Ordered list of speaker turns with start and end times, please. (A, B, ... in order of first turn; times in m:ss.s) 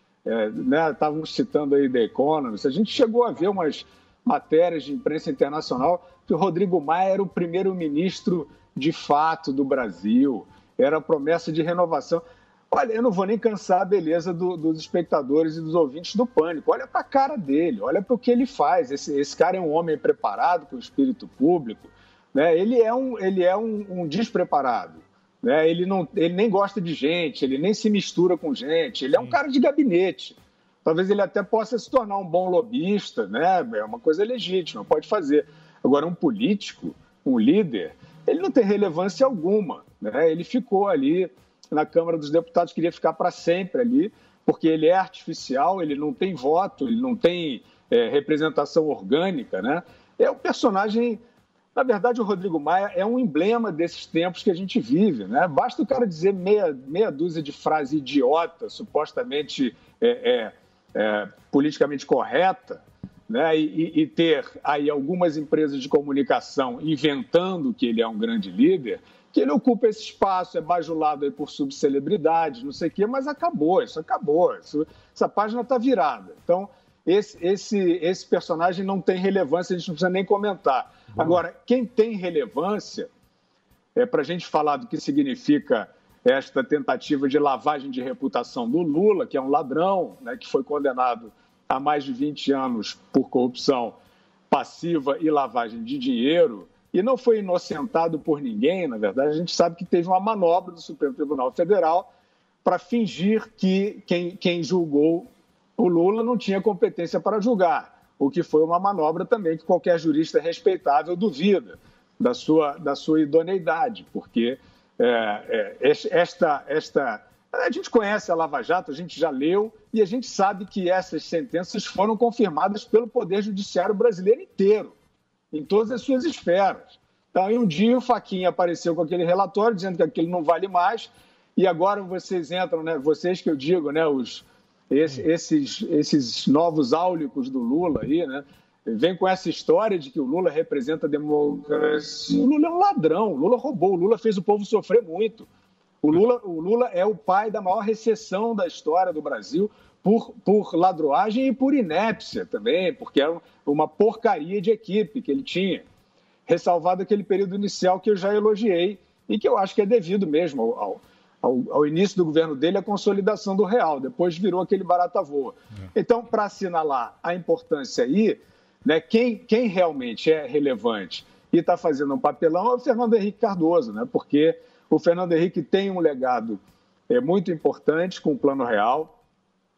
0:00.2-0:51.2 A
0:51.8-1:23.1 A
1:24.0-1:34.0 A
1:34.5-1:42.1 A
1:42.6-2:04.9 A
2:05.5-2:25.5 A
2:26.0-2:35.8 A
2:36.5-2:59.2 A